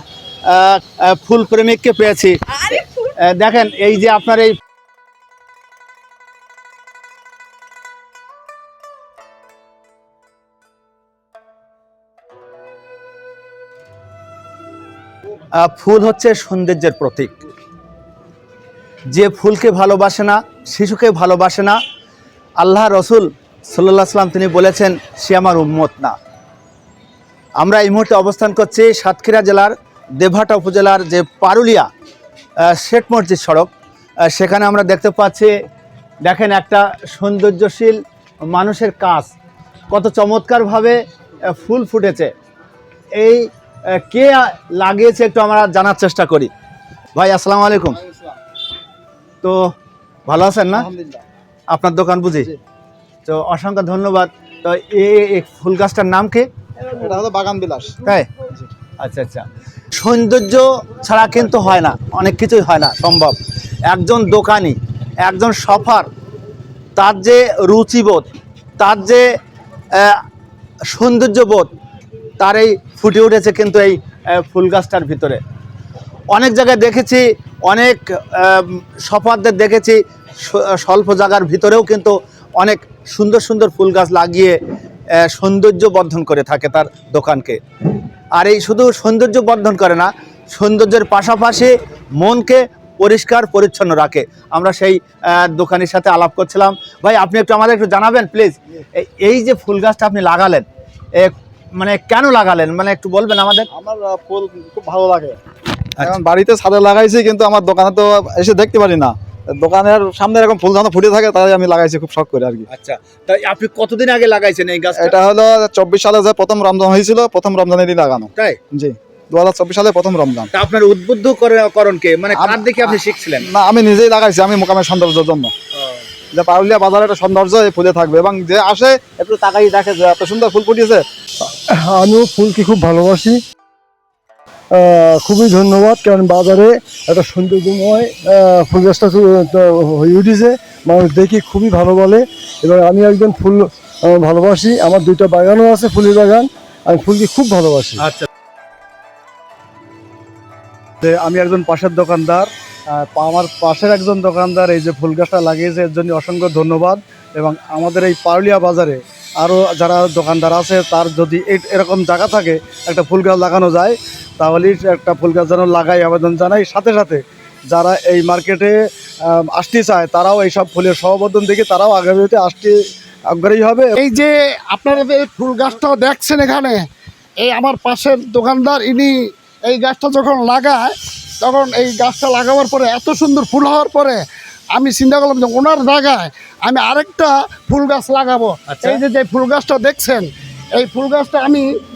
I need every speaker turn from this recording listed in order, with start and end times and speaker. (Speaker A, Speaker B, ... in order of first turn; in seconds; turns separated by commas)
Speaker A: 0.5-4.5, Speaker A: 15.5-17.3, Speaker A: 19.1-21.8, Speaker A: 22.6-26.1, Speaker A: 27.6-31.9, Speaker A: 32.7-33.7, Speaker A: 34.3-35.5, Speaker A: 36.2-39.3, Speaker A: 39.9-41.0, Speaker A: 41.5-42.3, Speaker A: 43.2-46.5, Speaker A: 47.1-48.0, Speaker A: 49.4-49.7, Speaker A: 50.3-50.9, Speaker B: 50.7-51.2, Speaker A: 51.7-52.5, Speaker A: 53.2-56.5, Speaker B: 56.8-58.0, Speaker A: 59.0-59.4, Speaker A: 59.9-63.4, Speaker A: 63.9-66.1, Speaker A: 67.0-68.3, Speaker A: 68.8-69.2, Speaker A: 70.0-70.2, Speaker A: 70.9-71.7, Speaker A: 72.4-75.4, Speaker A: 76.3-84.6, Speaker A: 85.2-87.6, Speaker A: 88.4-100.6, Speaker A: 101.2-103.7, Speaker B: 103.7-105.4, Speaker B: 106.0-112.7, Speaker A: 112.7-115.2, Speaker B: 115.0-120.5, Speaker A: 120.5-123.5, Speaker B: 122.3-125.5, Speaker B: 126.3-131.0, Speaker C: 131.5-133.4, Speaker C: 134.7-148.0, Speaker A: 148.0-148.3, Speaker D: 151.0-168.7, Speaker D: 169.3-172.7, Speaker D: 173.3-173.9, Speaker E: 174.0-176.9, Speaker E: 177.4-184.2, Speaker E: 184.7-191.7, Speaker A: 188.7-189.0